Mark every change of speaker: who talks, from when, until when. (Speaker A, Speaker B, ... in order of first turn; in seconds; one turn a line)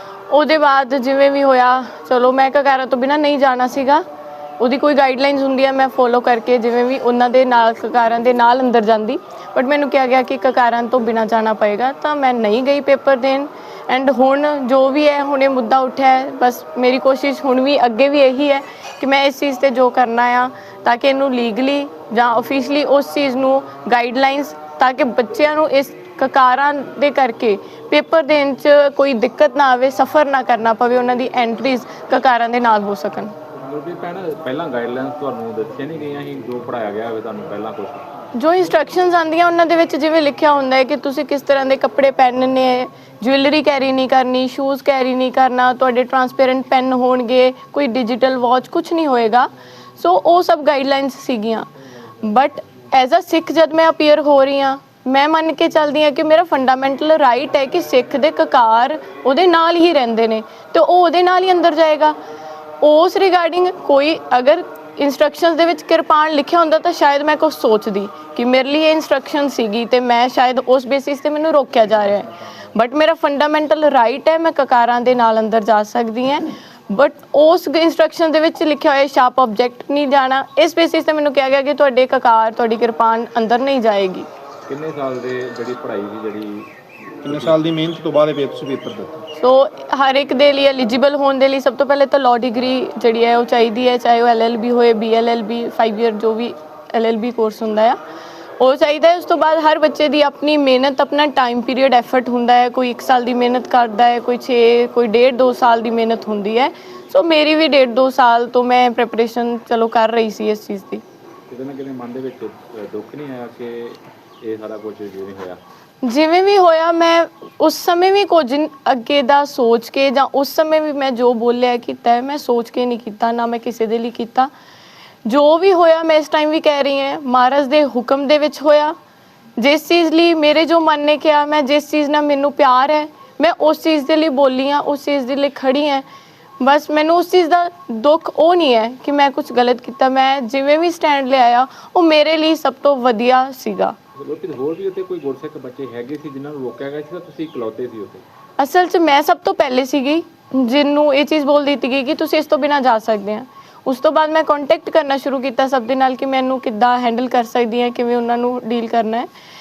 Speaker A: 0.3-4.0
Speaker A: 4.6-33.3
Speaker B: 33.6-38.1
Speaker A: 38.3-51.7
Speaker A: 52.2-62.1
Speaker A: 62.8-84.3
Speaker B: 84.7-86.7
Speaker B: 87.2-87.6
Speaker C: 87.2-89.2
Speaker A: 89.4-98.0
Speaker A: 98.6-111.0
Speaker B: 111.5-115.6
Speaker A: 116.0-124.5
Speaker A: 125.2-128.9
Speaker A: 129.6-136.0
Speaker A: 136.6-144.0
Speaker B: 144.2-148.2
Speaker A: 148.6-159.3